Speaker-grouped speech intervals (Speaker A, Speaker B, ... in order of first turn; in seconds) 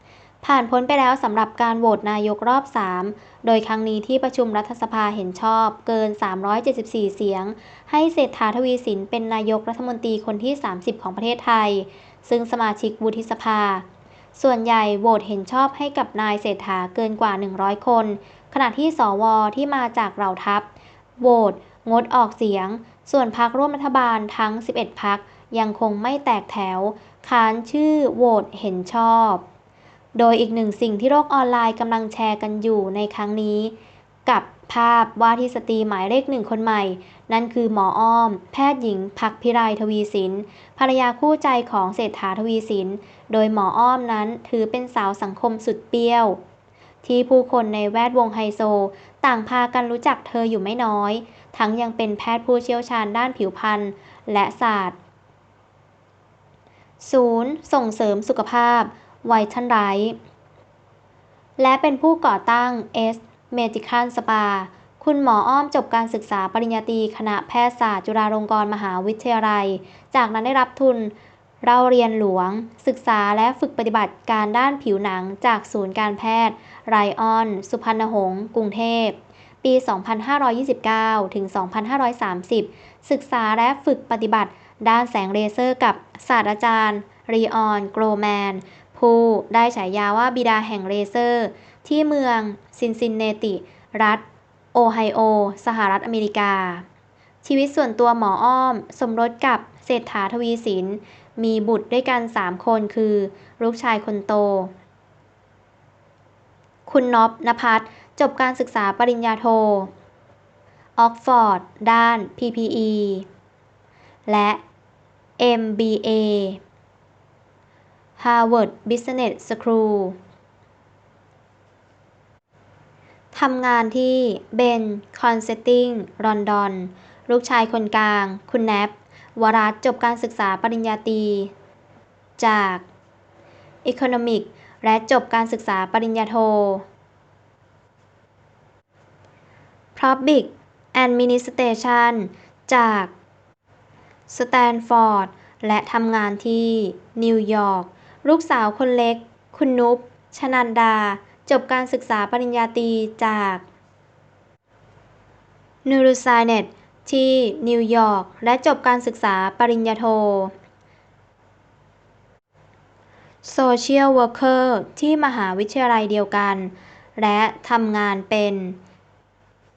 Speaker A: 0.4-20.7, 21.2-29.4, 30.1-33.7, 34.3-46.4, 47.0-55.0, 57.0-60.2, 61.6-94.2, 94.7-96.8, 97.4-104.7, 106.9-109.9, 111.0-113.3, 114.3-114.6, 115.4-116.6, 118.2-120.2, 123.3-131.5, 132.4-132.8, 133.8-136.8, 139.9-143.1, 144.3-153.6, 155.8-160.5, 163.4-168.8